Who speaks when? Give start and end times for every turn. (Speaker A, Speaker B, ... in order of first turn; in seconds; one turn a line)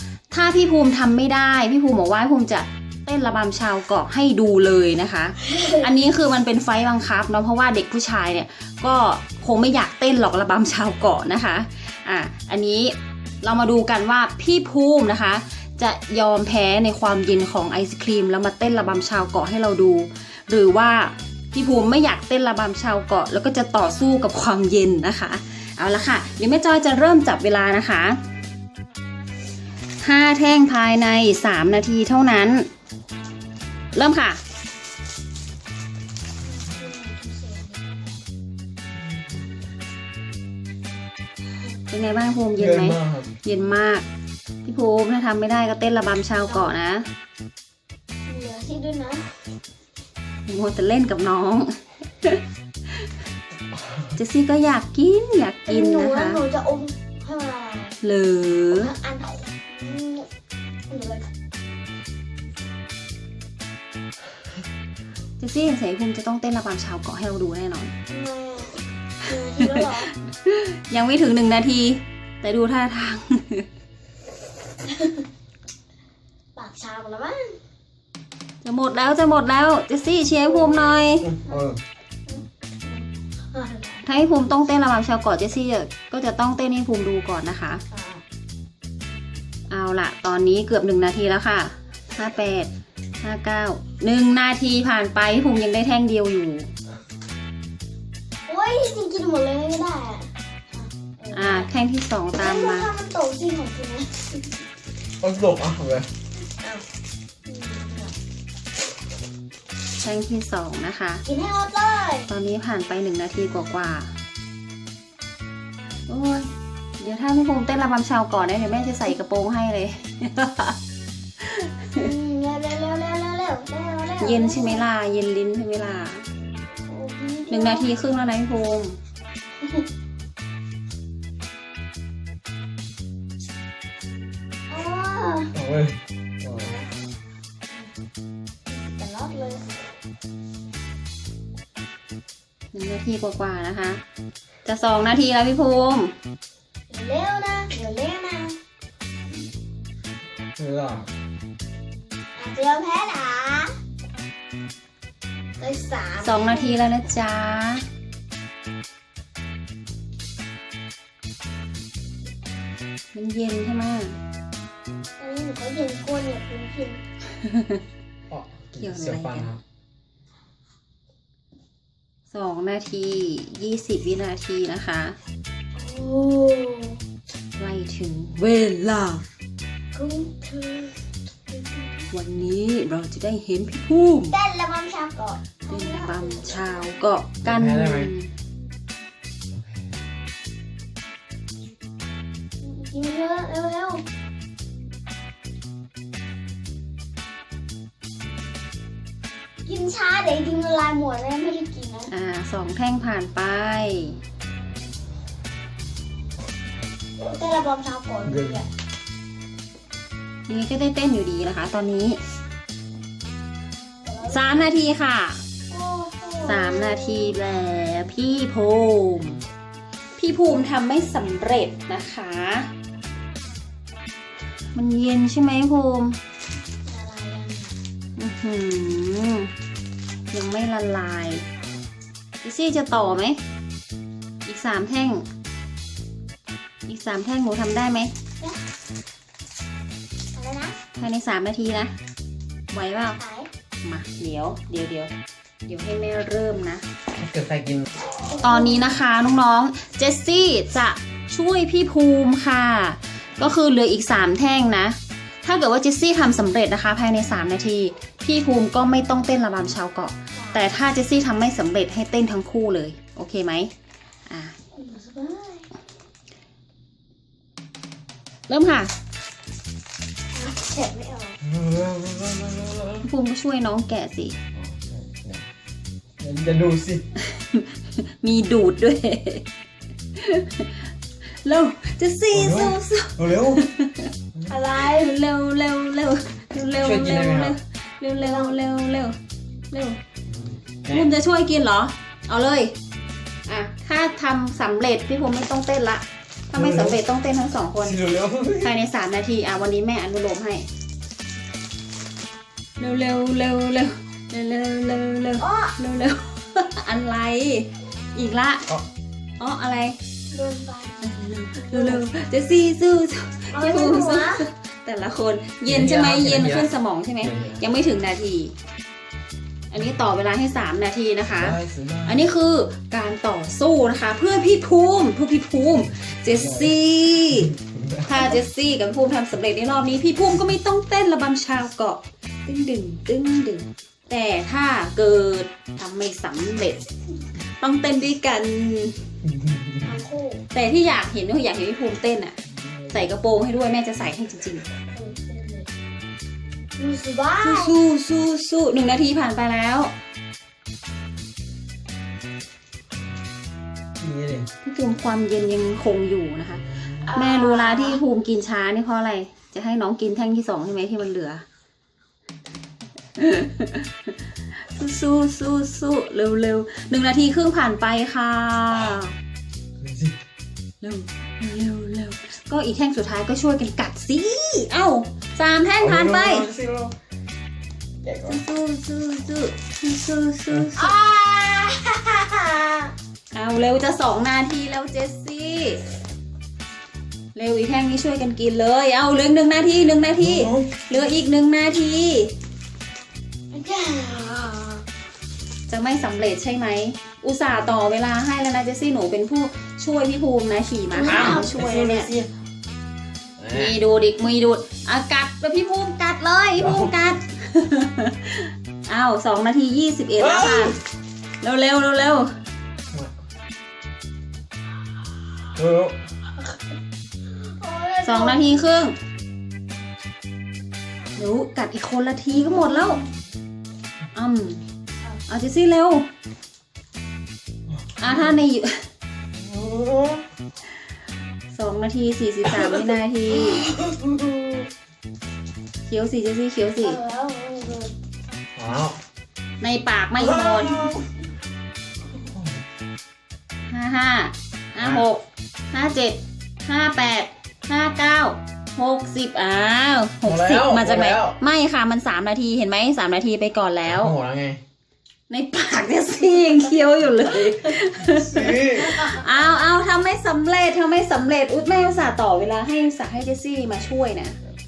Speaker A: 0.3-28.2
Speaker B: 5.6-5.8
Speaker A: 30.0-32.7
Speaker A: 33.9-34.4
Speaker B: 36.7-37.8
Speaker A: 41.9-44.1
Speaker C: 42.6-43.3
Speaker A: 44.6-47.1
Speaker B: 46.4-46.8
Speaker B: 48.3-49.2
Speaker A: 50.5-52.4
Speaker A: 54.1-56.4
Speaker B: 55.7-58.0
Speaker A: 58.0-58.9
Speaker B: 58.7-60.3
Speaker B: 60.9-61.3
Speaker A: 65.4-67.9
Speaker B: 68.1-70.2
Speaker A: 70.5-73.7
Speaker B: 76.6-77.6
Speaker A: 78.6-81.3
Speaker B: 80.4-81.7
Speaker C: 81.2-81.8
Speaker B: 82.3-84.0
Speaker A: 84.0-87.8
Speaker B: 87.9-88.2
Speaker A: 89.7-92.7
Speaker A: 93.2-96.7
Speaker B: 98.5-101.7
Speaker A: 101.3-102.9
Speaker B: 102.4-104.4
Speaker C: 105.2-106.1
Speaker B: 107.5-108.2
Speaker A: 110.0-111.2
Speaker B: 111.3-112.3
Speaker A: 112.3-114.1
Speaker A: 116.1-120.8
Speaker A: 121.4-121.9
Speaker B: 122.0-124.8
Speaker A: 124.2-126.3
Speaker B: 126.9-127.9
Speaker A: 127.5-129.0
Speaker B: 134.7-135.6
Speaker C: 135.5-136.8
Speaker B: 136.6-136.9
Speaker B: 138.7-139.7
Speaker A: 142.7-144.0
Speaker A: 144.7-146.1
Speaker B: 146.9-148.6
Speaker C: 150.6-151.1
Speaker B: 152.4-153.7
Speaker B: 155.6-156.8
Speaker A: 156.2-157.9
Speaker A: 163.1-164.2
Speaker B: 165.2-167.0
Speaker A: 167.4-167.8
Speaker C: 168.3-169.6
Speaker A: 168.8-169.5
Speaker A: 172.3-175.2
Speaker B: 175.8-177.0
Speaker A: 177.6-179.2
Speaker B: 179.9-181.0
Speaker B: 181.5-182.1
Speaker A: 182.1-184.4
Speaker B: 184.3-186.9
Speaker A: 185.7-188.3
Speaker C: 187.4-188.1
Speaker C: 189.5-189.9
Speaker B: 192.6-194.0
Speaker B: 199.7-202.1
Speaker A: 202.1-204.2
Speaker B: 207.2-208.7
Speaker C: 208.3-208.6
Speaker A: 210.5-212.2
Speaker B: 214.1-214.7
Speaker A: 214.3-215.4
Speaker B: 215.7-217.4
Speaker A: 216.4-219.4
Speaker A: 220.2-222.7
Speaker A: 224.7-226.2
Speaker B: 226.9-227.8
Speaker A: 228.2-229.5
Speaker A: 230.3-231.4
Speaker A: 232.4-233.4
Speaker A: 234.4-235.3
Speaker A: 236.9-238.1
Speaker B: 240.3-240.8
Speaker A: 241.0-241.9
Speaker A: 242.7-243.2
Speaker B: 243.2-243.5
Speaker A: 243.8-245.1
Speaker A: 245.7-246.8
Speaker C: 247.2-247.9
Speaker B: 248.3-249.0
Speaker A: 248.4-263.7
Speaker B: 260.3-260.7
Speaker A: 264.3-264.6
Speaker B: 264.8-265.7
Speaker A: 268.5-268.9
Speaker B: 270.4-271.4
Speaker C: 271.4-273.1
Speaker A: 273.0-274.4
Speaker C: 274.5-275.5
Speaker C: 276.2-277.0
Speaker A: 278.2-279.4
Speaker A: 280.2-280.7
Speaker A: 281.4-284.1
Speaker C: 282.3-283.7
Speaker B: 284.5-285.1
Speaker A: 284.8-289.2
Speaker C: 286.8-287.6
Speaker B: 288.2-288.6
Speaker A: 289.7-290.0
Speaker C: 290.3-291.1
Speaker A: 290.9-292.7
Speaker A: 293.5-298.0
Speaker C: 296.5-297.0
Speaker C: 297.8-298.7
Speaker A: 298.6-300.7
Speaker A: 302.8-308.7
Speaker B: 305.4-305.8
Speaker A: 309.4-310.0
Speaker B: 310.3-311.0
Speaker A: 311.0-318.5
Speaker B: 311.6-312.1
Speaker B: 313.5-314.4
Speaker C: 315.6-316.7
Speaker C: 317.2-317.6
Speaker A: 319.7-327.5
Speaker C: 321.3-322.2
Speaker C: 326.2-326.8
Speaker C: 327.5-328.1
Speaker A: 328.1-336.8
Speaker A: 337.5-339.0
Speaker C: 339.3-340.0
Speaker B: 339.8-340.4
Speaker A: 340.5-342.4
Speaker C: 342.7-343.0
Speaker A: 342.9-344.7
Speaker B: 344.9-345.7
Speaker B: 346.8-347.8
Speaker A: 347.4-349.9
Speaker C: 354.0-354.5
Speaker A: 354.6-356.6
Speaker C: 356.6-357.1
Speaker B: 357.0-358.0
Speaker A: 357.1-361.4
Speaker A: 363.1-369.1
Speaker C: 369.8-370.2
Speaker A: 370.8-376.5
Speaker C: 375.8-377.0
Speaker C: 378.0-378.4
Speaker A: 378.3-380.9
Speaker B: 380.8-382.9
Speaker A: 383.3-385.8
Speaker A: 387.3-392.3
Speaker C: 390.2-390.7
Speaker B: 393.5-394.8
Speaker A: 395.7-402.1
Speaker B: 400.9-401.6
Speaker C: 401.0-402.3
Speaker C: 403.4-403.8
Speaker A: 403.5-410.8
Speaker C: 406.6-407.0
Speaker C: 410.2-410.8
Speaker A: 411.4-412.3
Speaker C: 415.6-416.0
Speaker B: 417.4-418.5
Speaker A: 418.0-419.0
Speaker A: 421.2-423.0
Speaker B: 422.4-422.9
Speaker A: 424.1-424.6
Speaker A: 425.3-426.1
Speaker A: 428.0-428.9
Speaker C: 429.4-430.2
Speaker A: 431.5-433.7
Speaker C: 432.5-432.8
Speaker C: 433.7-434.4
Speaker A: 435.9-437.0
Speaker B: 436.8-437.9
Speaker C: 438.6-439.0
Speaker A: 439.6-440.9
Speaker C: 440.2-441.0
Speaker B: 440.6-440.9
Speaker C: 442.2-442.6
Speaker A: 443.7-454.1
Speaker C: 444.8-445.1
Speaker C: 450.2-451.4
Speaker C: 453.8-454.6
Speaker A: 455.3-464.4
Speaker C: 458.1-459.1